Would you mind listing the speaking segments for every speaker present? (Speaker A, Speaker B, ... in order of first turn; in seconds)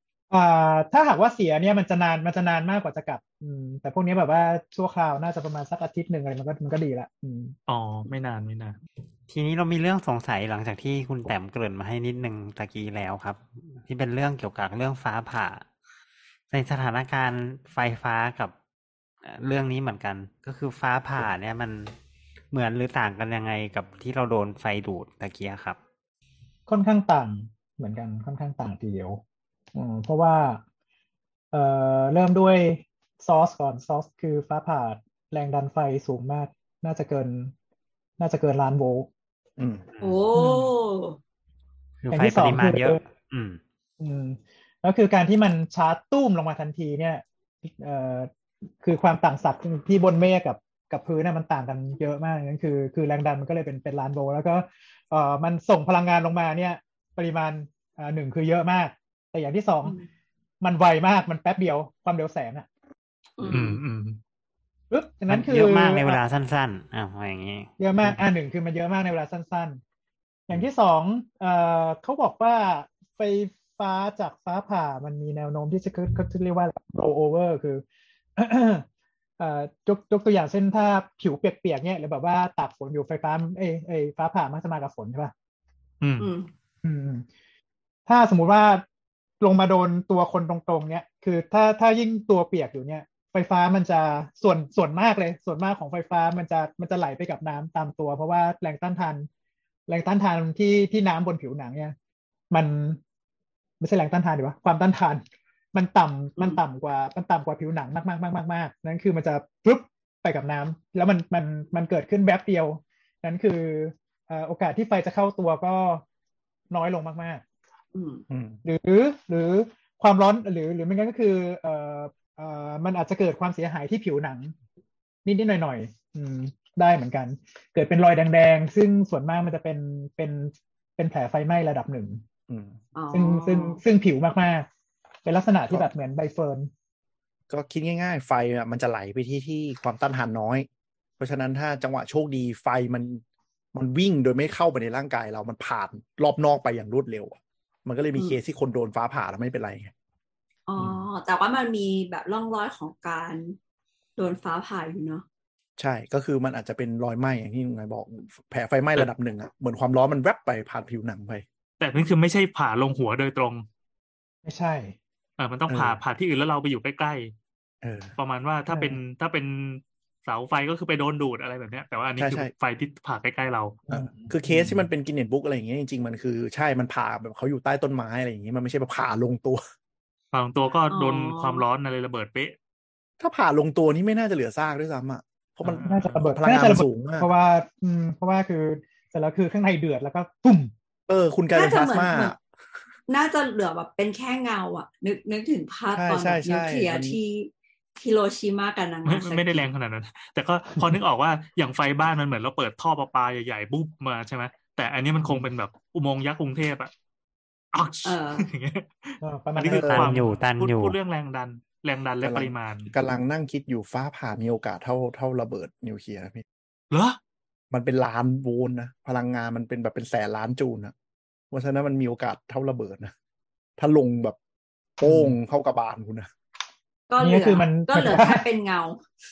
Speaker A: 0.3-7.5, 26.7-29.2, 29.7-30.6, 31.5-37.5, 38.2-39.1, 40.3-40.7, 42.1-43.0, 44.0-48.3, 48.8-60.0, 60.6-62.7, 64.9-66.2, 67.8-69.8, 70.5-77.8, 78.4-78.8, 79.4-85.3, 86.8-87.2, 88.0-88.8, 89.4-99.3, 99.9-101.9, 102.5-103.0, 103.8-116.0, 116.7-117.4, 118.6-124.5, 125.2-132.2, 133.1-134.7, 135.2-136.7, 164.4-164.9, 168.7-169.0, 173.9-174.8, 185.8-190.7, 209.2-210.2, 225.0-225.3, 227.2-228.5
Speaker B: 7.7-8.8, 63.4-64.2, 86.0-86.3, 161.8-163.7, 165.4-167.3, 168.2-173.8, 180.3-182.6, 185.6-186.2, 199.0-206.9, 207.7-212.9, 216.9-217.2
Speaker C: 9.3-15.6, 16.5-18.5, 19.2-21.9, 22.5-25.8, 42.0-43.6, 65.3-68.1, 209.6-211.0
Speaker D: 39.6-39.8, 118.3-118.6, 132.5-132.8, 137.5-140.7, 141.2-143.2, 143.7-149.9, 155.8-161.4, 165.7-166.0, 167.8-168.1, 172.2-172.5, 173.9-179.6, 183.2-187.3, 191.1-192.4, 195.9-197.2, 212.2-216.4, 217.7-220.9, 221.5-223.1, 223.8-224.4, 225.0-226.3
Speaker E: 40.0-41.2, 63.4-63.8, 86.2-86.5, 117.9-118.2, 132.9-133.8, 150.7-153.6, 154.2-155.2, 180.9-181.6, 191.5-192.3, 193.1-199.7, 208.0-208.5, 227.1-229.0